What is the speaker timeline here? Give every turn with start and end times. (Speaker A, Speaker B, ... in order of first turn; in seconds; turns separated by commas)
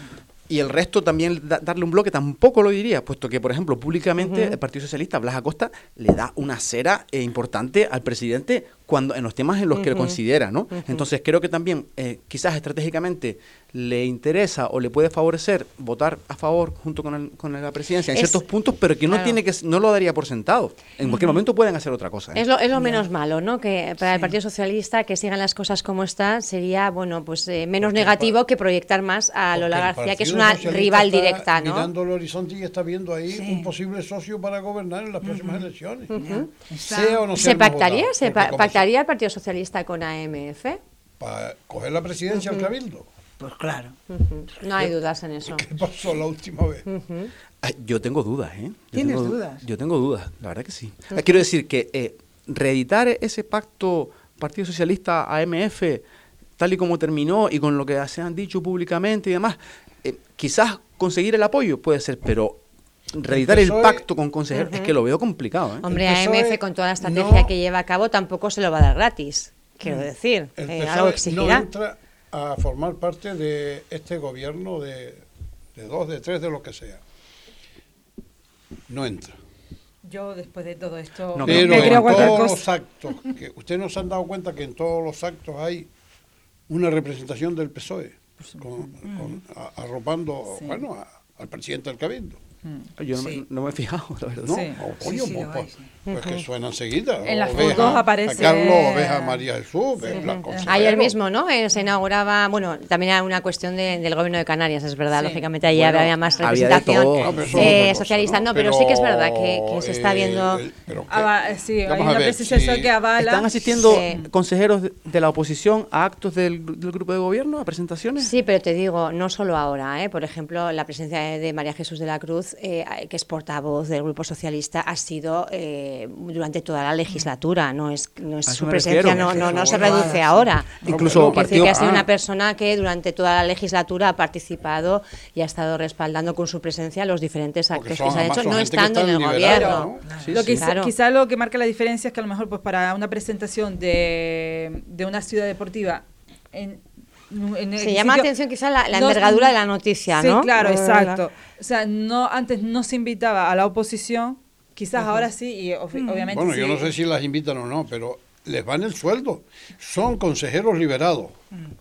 Speaker A: 0.5-22.4, Speaker B: 4.2-4.5, Speaker B: 9.8-10.1, Speaker B: 18.1-18.4, Speaker B: 19.1-19.4, Speaker B: 22.3-31.9, Speaker C: 24.1-24.3, Speaker D: 27.8-28.4, Speaker D: 29.5-36.2, Speaker C: 33.3-33.7, Speaker C: 35.2-35.6, Speaker B: 36.1-36.5, Speaker C: 36.1-37.2, Speaker D: 36.8-38.8, Speaker B: 37.3-40.8, Speaker D: 41.2-43.1, Speaker C: 43.4-44.0, Speaker B: 44.1-45.6, Speaker D: 45.5-46.9, Speaker B: 46.9-47.3, Speaker A: 47.6-56.0, Speaker C: 48.9-49.6, Speaker A: 56.6-62.6, Speaker A: 63.1-65.8, Speaker D: 63.3-64.0, Speaker B: 64.5-64.9, Speaker B: 65.8-71.7, Speaker D: 65.8-67.5, Speaker D: 70.6-77.0, Speaker D: 78.9-79.3, Speaker E: 80.0-82.6, Speaker A: 81.3-82.4, Speaker D: 81.4-85.9, Speaker D: 86.7-92.4, Speaker E: 88.5-88.9, Speaker C: 89.0-89.4, Speaker E: 90.5-90.8, Speaker A: 93.0-94.7, Speaker C: 93.2-93.4, Speaker D: 94.4-101.1, Speaker E: 94.5-94.8, Speaker C: 95.0-95.9, Speaker B: 96.1-96.4, Speaker E: 97.2-99.4, Speaker E: 100.1-101.0, Speaker B: 100.1-110.6, Speaker E: 105.2-105.4, Speaker A: 105.7-108.1, Speaker D: 107.2-112.9, Speaker E: 111.1-113.6, Speaker A: 113.2-118.3, Speaker B: 113.7-114.2, Speaker B: 118.2-139.9, Speaker A: 128.4-130.1, Speaker D: 129.2-130.1, Speaker C: 129.7-130.2, Speaker D: 130.8-131.9, Speaker A: 130.8-132.1, Speaker D: 137.7-140.2, Speaker E: 139.4-148.3, Speaker A: 140.2-140.6, Speaker B: 140.6-140.9, Speaker B: 147.8-151.2, Speaker E: 148.9-149.5, Speaker E: 150.1-156.9, Speaker C: 155.9-156.3, Speaker D: 156.3-161.4